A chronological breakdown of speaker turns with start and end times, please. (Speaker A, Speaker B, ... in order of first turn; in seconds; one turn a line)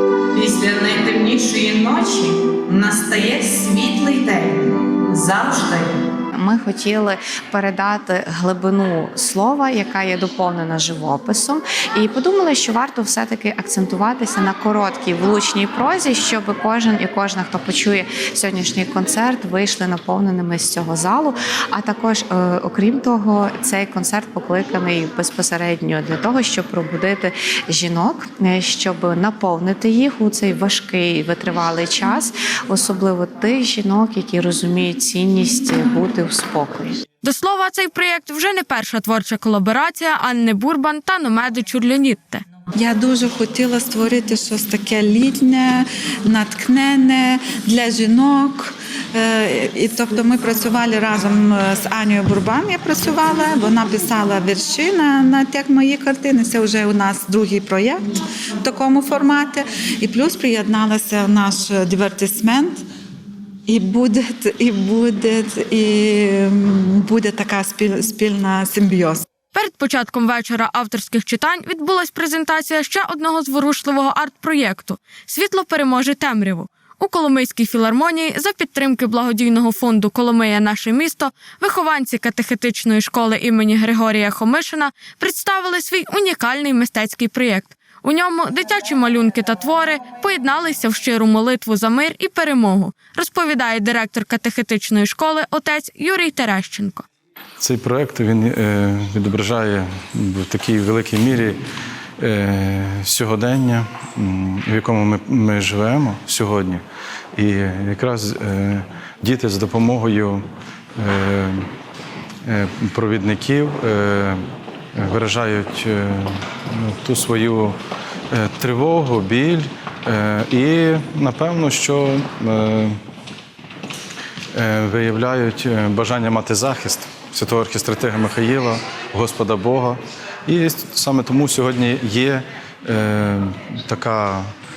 Speaker A: 0.3-6.0
Speaker B: 6.3-37.0
Speaker C: 37.2-42.4
Speaker D: 42.8-58.0
Speaker D: 58.6-62.8
Speaker D: 63.7-69.2
Speaker C: 69.5-97.0
Speaker E: 97.6-101.6
Speaker E: 102.2-106.8
Speaker E: 107.4-110.4
Speaker E: 111.0-111.6
Speaker E: 112.5-114.4
Speaker E: 115.0-117.8
Speaker E: 118.3-123.0
Speaker E: 124.5-134.4